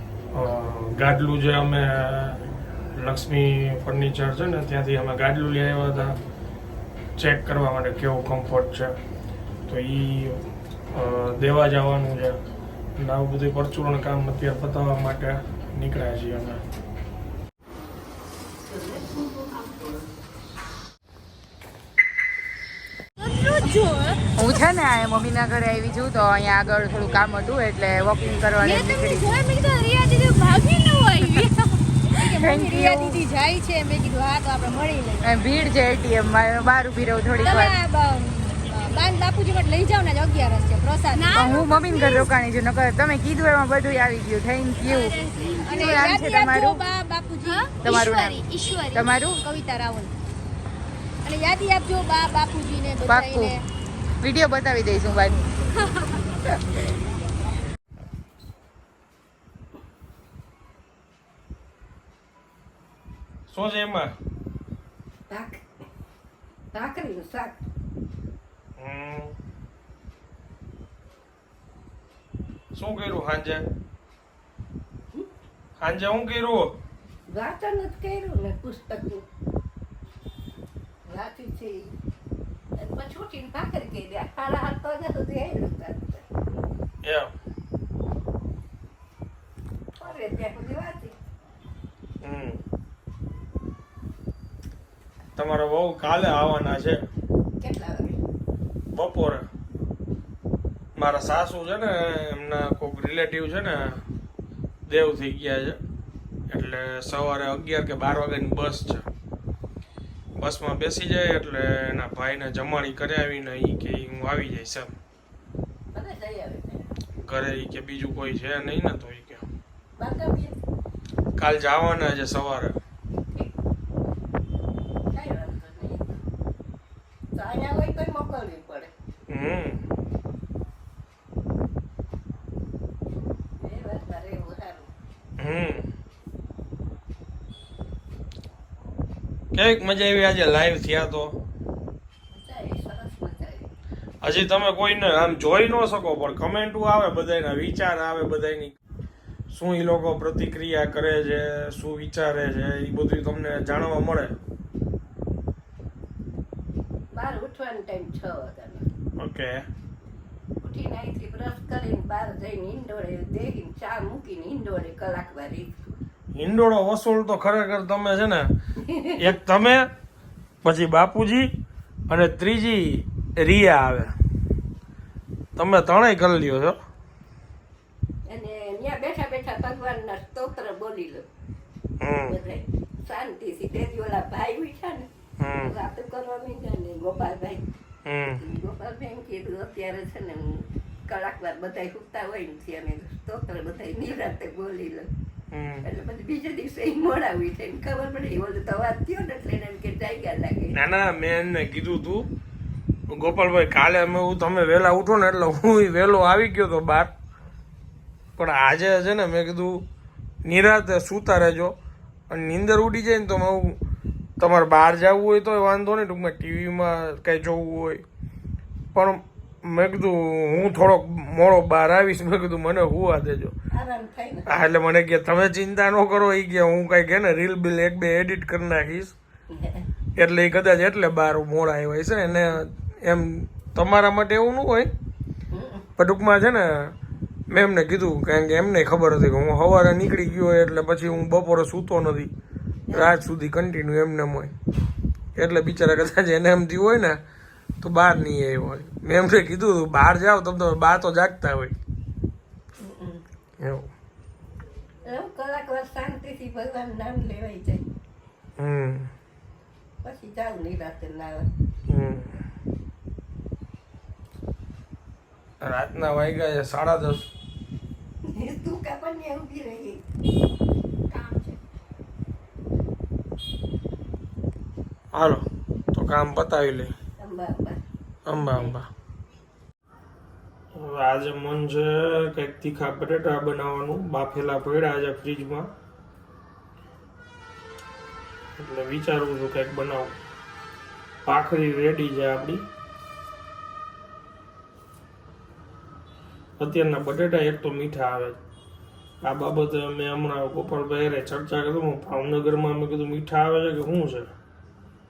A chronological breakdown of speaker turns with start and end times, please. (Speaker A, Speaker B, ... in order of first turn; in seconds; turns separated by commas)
Speaker A: 0.3-6.2, Speaker A: 7.2-8.9, Speaker A: 9.7-12.4, Speaker A: 13.0-16.6, Speaker B: 23.2-24.2, Speaker C: 24.4-29.3, Speaker B: 28.6-35.5, Speaker C: 32.2-33.2, Speaker C: 35.2-37.8, Speaker B: 37.4-42.4, Speaker C: 41.3-45.2, Speaker B: 44.9-50.1, Speaker D: 45.3-46.6, Speaker C: 45.7-46.8, Speaker C: 47.8-49.4, Speaker B: 51.2-53.6, Speaker C: 53.0-53.6, Speaker C: 54.2-55.5, Speaker A: 63.5-64.1, Speaker D: 65.3-65.6, Speaker D: 66.7-67.6, Speaker A: 68.8-69.3, Speaker A: 72.7-73.7, Speaker A: 75.8-76.7, Speaker D: 77.3-79.2, Speaker D: 81.1-81.9, Speaker D: 82.8-86.3, Speaker A: 87.0-87.3, Speaker D: 90.0-91.2, Speaker A: 92.2-92.6, Speaker A: 95.4-97.0, Speaker D: 97.6-98.2, Speaker A: 98.9-99.5, Speaker A: 101.0-104.0, Speaker A: 104.9-105.8, Speaker A: 106.5-109.1, Speaker A: 110.4-114.9, Speaker D: 115.9-116.9, Speaker A: 117.3-119.5, Speaker D: 120.0-120.6, Speaker A: 121.4-122.8, Speaker D: 125.1-126.2, Speaker D: 127.3-128.9, Speaker A: 129.3-129.8, Speaker D: 133.6-134.9, Speaker A: 135.4-135.9, Speaker A: 139.5-141.4, Speaker D: 142.3-143.7, Speaker A: 144.2-148.7, Speaker A: 149.5-154.3, Speaker D: 157.1-158.9, Speaker A: 159.2-159.6, Speaker D: 160.6-165.8, Speaker A: 166.3-168.5, Speaker D: 168.8-169.3, Speaker A: 169.2-169.8, Speaker A: 170.6-171.5, Speaker A: 172.1-174.1, Speaker A: 175.6-176.8, Speaker D: 178.3-181.2, Speaker A: 182.0-182.3, Speaker D: 182.3-185.1, Speaker A: 185.4-185.7, Speaker D: 185.7-187.6, Speaker A: 188.1-188.4, Speaker D: 188.3-190.5, Speaker D: 191.1-195.1, Speaker A: 195.5-195.8, Speaker D: 195.8-200.8, Speaker A: 200.7-202.3, Speaker A: 203.1-207.1, Speaker A: 208.4-209.8, Speaker A: 210.4-211.8, Speaker A: 212.3-213.8, Speaker A: 214.4-218.0, Speaker A: 218.9-223.5, Speaker D: 223.7-224.5, Speaker A: 224.5-229.2, Speaker D: 229.5-229.9, Speaker A: 230.2-234.9, Speaker D: 235.5-235.9, Speaker A: 236.0-236.9, Speaker A: 237.5-242.3, Speaker D: 242.9-243.2, Speaker A: 242.9-244.5, Speaker A: 245.4-247.2, Speaker A: 247.8-251.8, Speaker D: 252.8-253.2, Speaker A: 253.6-253.9, Speaker D: 255.1-257.9, Speaker A: 258.6-259.1, Speaker D: 260.0-261.5, Speaker A: 261.9-262.4, Speaker A: 265.6-267.3, Speaker D: 268.3-270.0, Speaker D: 271.1-271.6, Speaker A: 275.1-276.9, Speaker D: 277.2-277.8, Speaker A: 278.3-278.9, Speaker D: 278.5-278.7, Speaker A: 280.8-285.7, Speaker A: 288.6-290.2, Speaker A: 291.2-292.6, Speaker A: 296.6-298.4, Speaker A: 299.2-304.3